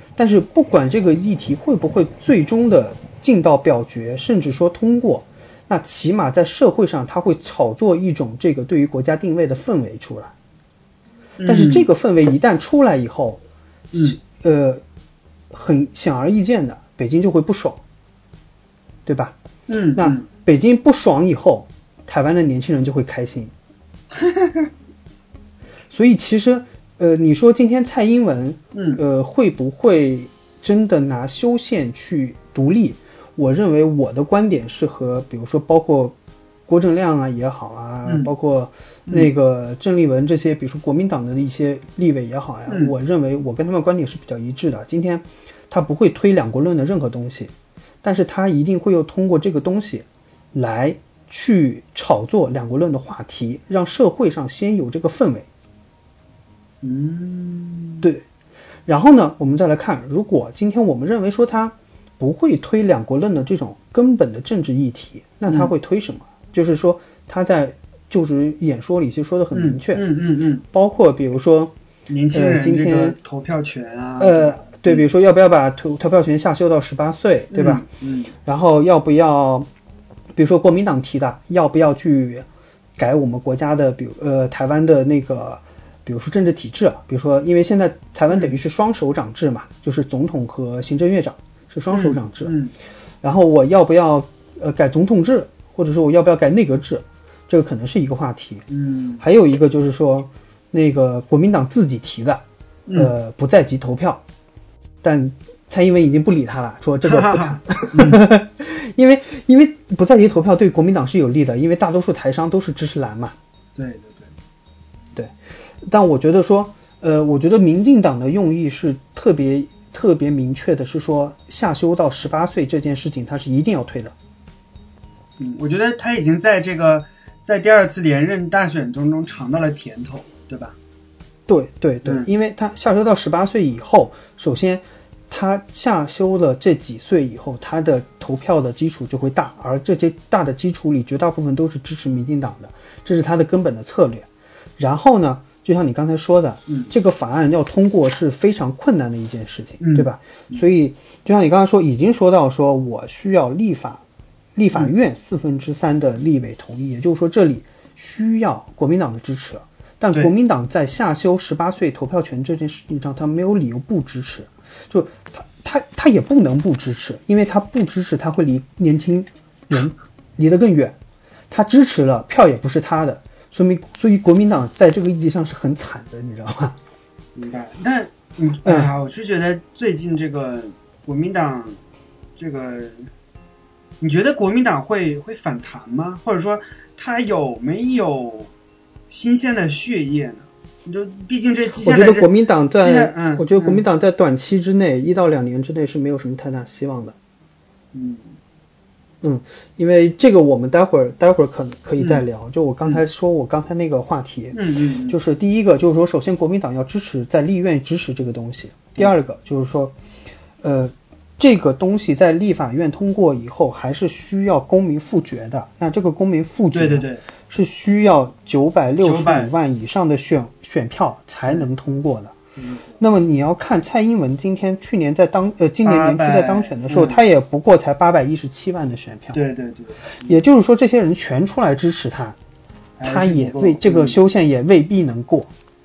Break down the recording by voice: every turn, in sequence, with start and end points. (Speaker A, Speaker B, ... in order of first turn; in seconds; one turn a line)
Speaker A: 0.2-10.3
Speaker B: 11.4-11.9
Speaker A: 11.4-13.4
Speaker B: 13.9-14.2
Speaker A: 13.9-14.8
Speaker A: 15.5-17.8
Speaker A: 19.1-19.4
Speaker B: 19.7-20.3
Speaker A: 19.9-23.5
Speaker B: 24.2-24.7
Speaker A: 25.9-36.1
Speaker B: 28.7-29.0
Speaker A: 36.7-55.5
Speaker B: 42.7-42.9
Speaker B: 56.8-58.0
Speaker A: 58.9-70.1
Speaker B: 65.5-65.7
Speaker B: 69.5-70.6
Speaker A: 70.7-71.7
Speaker B: 72.1-75.0
Speaker A: 72.3-73.2
Speaker A: 74.2-77.8
Speaker B: 77.5-78.3
Speaker A: 78.4-79.7
Speaker A: 80.3-92.5
Speaker B: 91.9-92.7
Speaker A: 93.2-98.6
Speaker B: 98.7-99.2
Speaker A: 99.2-104.2
Speaker B: 102.9-103.1
Speaker A: 105.0-113.3
Speaker B: 107.0-108.2
Speaker B: 113.8-114.3
Speaker A: 115.1-124.1
Speaker B: 125.4-130.8
Speaker A: 131.5-144.3
Speaker B: 132.0-132.3
Speaker A: 144.8-154.0
Speaker B: 149.8-150.6
Speaker A: 154.6-171.0
Speaker A: 171.5-176.8
Speaker B: 177.3-181.8
Speaker A: 178.6-178.9
Speaker B: 182.4-183.1
Speaker B: 184.0-188.5
Speaker B: 189.1-193.8
Speaker A: 191.8-197.2
Speaker B: 197.9-198.3
Speaker A: 199.2-210.0
Speaker B: 202.0-202.2
Speaker B: 204.5-205.2
Speaker A: 210.6-222.3
Speaker B: 216.7-217.2
Speaker B: 219.0-219.5
Speaker B: 222.6-223.0
Speaker A: 223.0-229.4
Speaker B: 225.8-227.2
Speaker B: 229.3-230.4
Speaker A: 230.2-232.4
Speaker B: 233.0-234.2
Speaker A: 233.0-235.5